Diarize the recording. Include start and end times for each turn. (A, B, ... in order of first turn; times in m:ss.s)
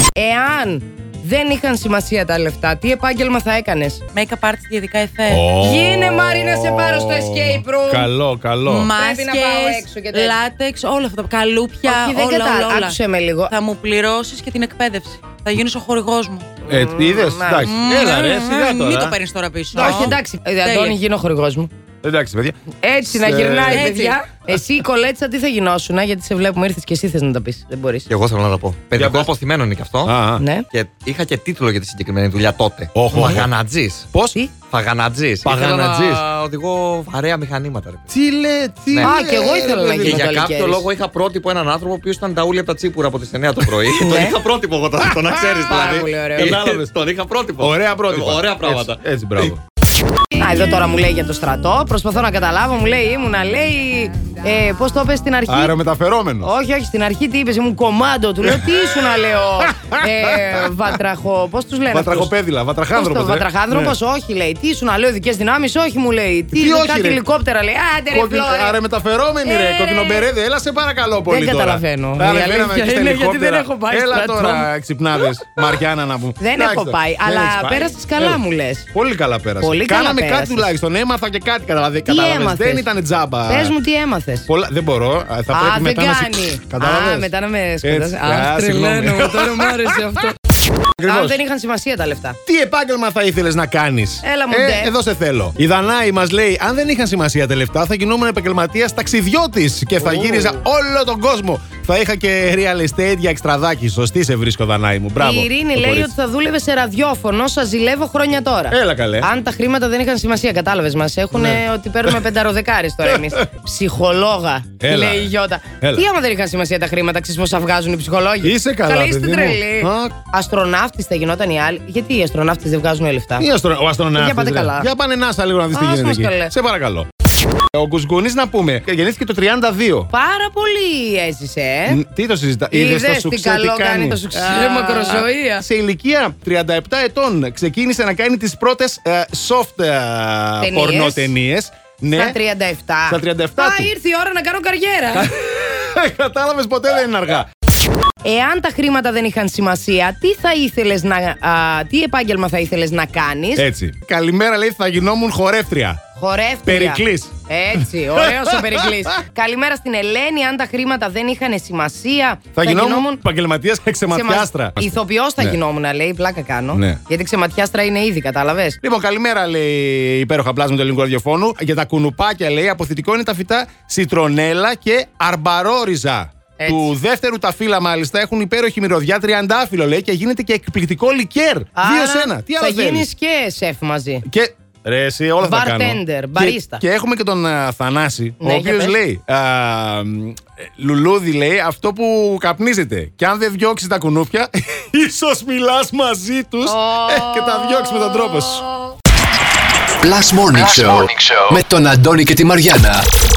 0:00.2-0:04.0 A
0:04.1-0:05.5 B
0:05.3-0:08.9 C
0:05.6-0:08.1 A
0:08.6-0:16.5 B
0:09.0-0:10.4 A
0:11.8-0:13.5 A
0:16.6-0:17.7 A
0:16.7-0:19.2 C
0:17.6-0:21.0 B
0:19.7-0:20.2 C
0:19.8-0:21.7 A
0:22.0-0:22.6 C
0:22.8-0:28.1 A
0:23.1-0:23.9 C
0:23.7-0:24.3 B
0:28.1-0:30.2 D
0:29.0-0:29.3 C
0:30.0-0:30.4 C
0:30.4-0:30.7 A
0:30.7-0:34.0 D
0:33.0-0:33.5 C
0:34.7-0:38.1 D
0:35.4-0:36.2 C
0:38.1-0:40.2 C
0:39.0-0:40.9 A
0:39.9-0:49.0 D
0:44.0-0:44.4 A
0:45.6-0:46.6 A
0:46.4-0:46.9 C
0:47.6-0:49.6 C
0:50.4-0:55.8 A
0:55.5-0:56.5 C
0:56.4-1:02.3 A
0:58.4-0:58.9 C
0:59.6-1:00.7 C
1:01.9-1:04.0 C
1:02.9-1:08.8 A
1:06.5-1:07.2 C
1:08.1-1:18.4 C
1:09.4-1:10.3 A
1:11.3-1:14.7 A
1:16.4-1:18.9 A
1:18.9-1:23.8 C
1:19.6-1:20.7 A
1:22.0-1:22.9 A
1:23.5-1:24.5 A
1:24.5-1:27.3 C
1:25.5-1:30.3 A
1:27.8-1:30.2 C
1:31.0-1:31.4 C
1:31.1-1:32.4 A
1:32.5-1:46.1 C
1:34.2-1:34.9 A
1:40.0-1:40.5 A
1:45.2-2:03.5 A
1:48.7-1:49.3 C
1:51.3-1:52.2 C
1:53.0-1:53.4 C
1:54.8-1:56.0 C
1:58.4-2:00.1 C
2:03.4-2:07.1 C
2:04.2-2:04.9 A
2:05.7-2:06.5 A
2:07.7-2:10.1 C
2:10.1-2:12.0 A
2:11.9-2:22.4 C
2:12.7-2:15.6 A
2:20.6-2:21.3 A
2:22.1-2:25.3 A
2:23.1-2:23.9 C
2:25.2-2:27.5 C
2:28.2-2:33.7 A
2:33.6-2:36.0 C
2:36.2-2:43.2 A
2:36.7-2:39.2 C
2:42.6-2:45.6 C
2:44.1-2:48.8 A
2:46.7-2:47.0 C
2:48.8-3:03.1 C
2:56.6-2:56.9 A
3:01.8-3:04.2 A
3:04.3-3:18.6 C
3:05.4-3:06.8 A
3:08.4-3:09.0 A
3:16.6-3:18.7 A
3:20.0-3:23.1 E